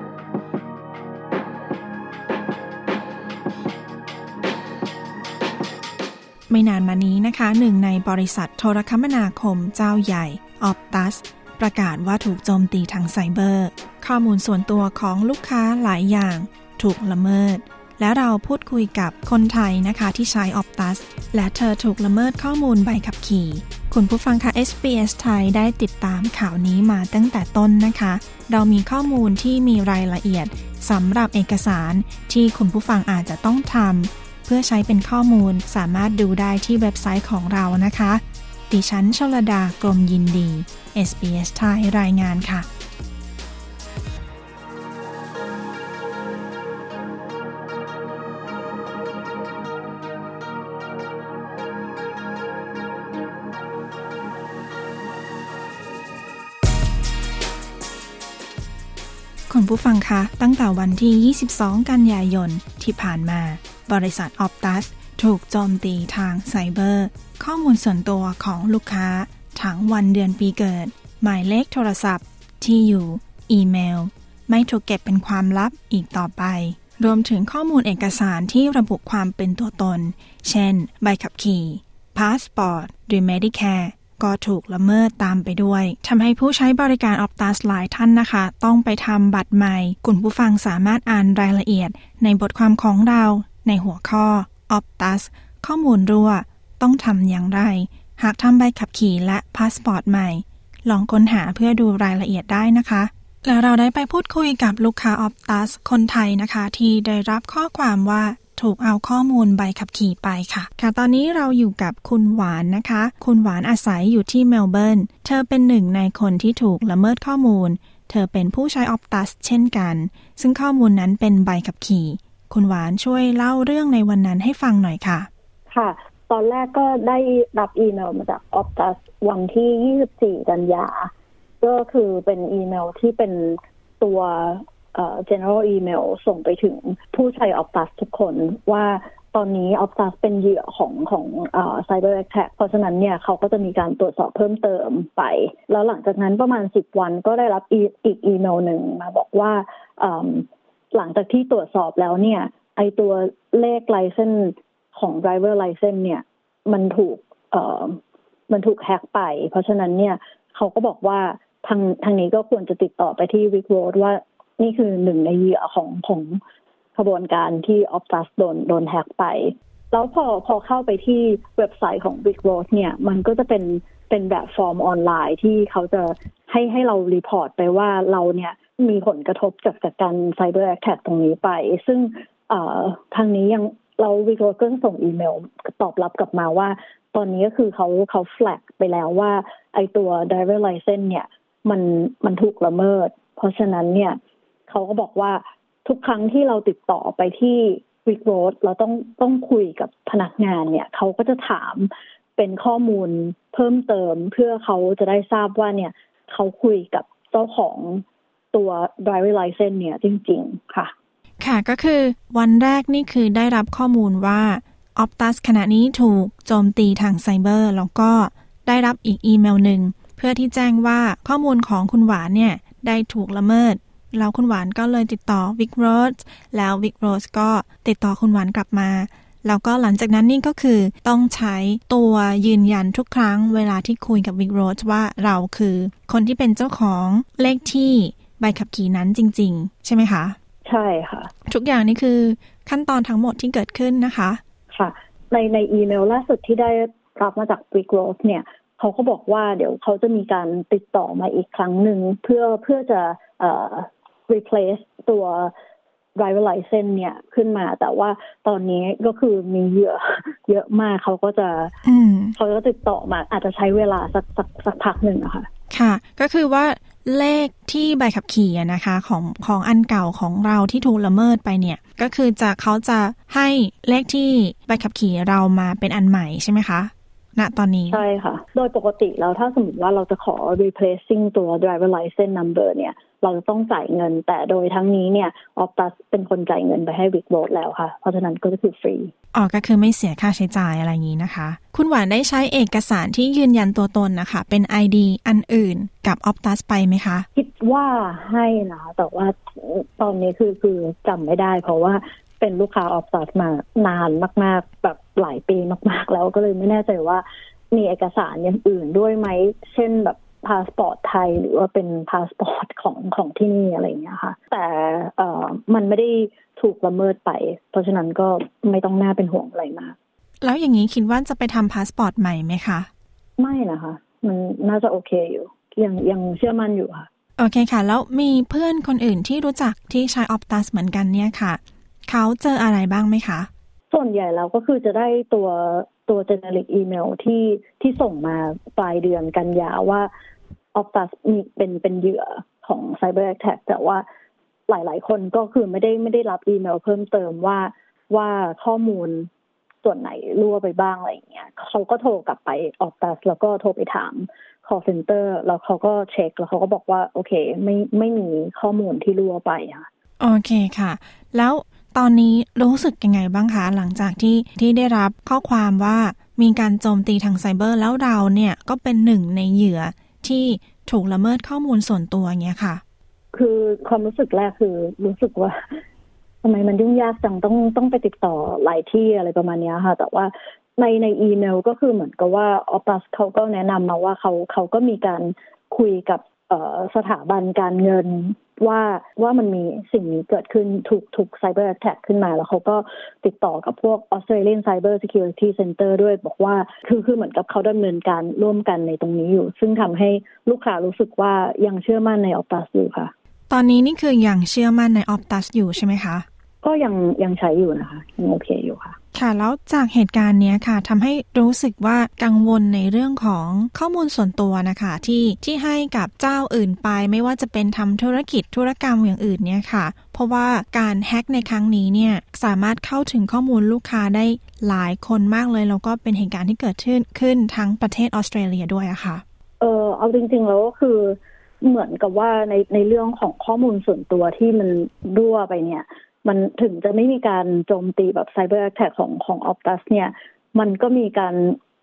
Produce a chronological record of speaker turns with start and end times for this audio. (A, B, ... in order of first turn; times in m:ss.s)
0:06.5-0:42.7 A
0:59.5-2:05.3 A
2:05.7-2:46.4 B
2:47.0-3:30.9 B
3:31.4-4:00.4 A
4:00.6-4:01.3 B
4:01.5-4:04.4 A
4:04.7-4:15.5 B
4:16.2-4:21.7 B
4:21.8-4:22.4 A
4:22.4-4:25.5 B
4:25.7-4:38.0 A
4:37.9-4:49.1 B
4:49.3-4:57.3 A
4:57.4-5:20.0 B
5:20.4-5:22.9 A
5:23.4-5:27.1 B
5:27.4-5:33.5 A
5:33.9-5:40.1 B
5:40.7-5:44.0 B
5:44.7-5:49.3 B
5:49.8-5:59.9 B
6:00.2-6:12.8 A
6:13.3-6:15.8 B
6:16.4-6:43.1 B
6:43.5-6:46.2 A
6:46.6-6:49.0 B
6:49.1-7:09.2 A
7:09.6-7:21.6 B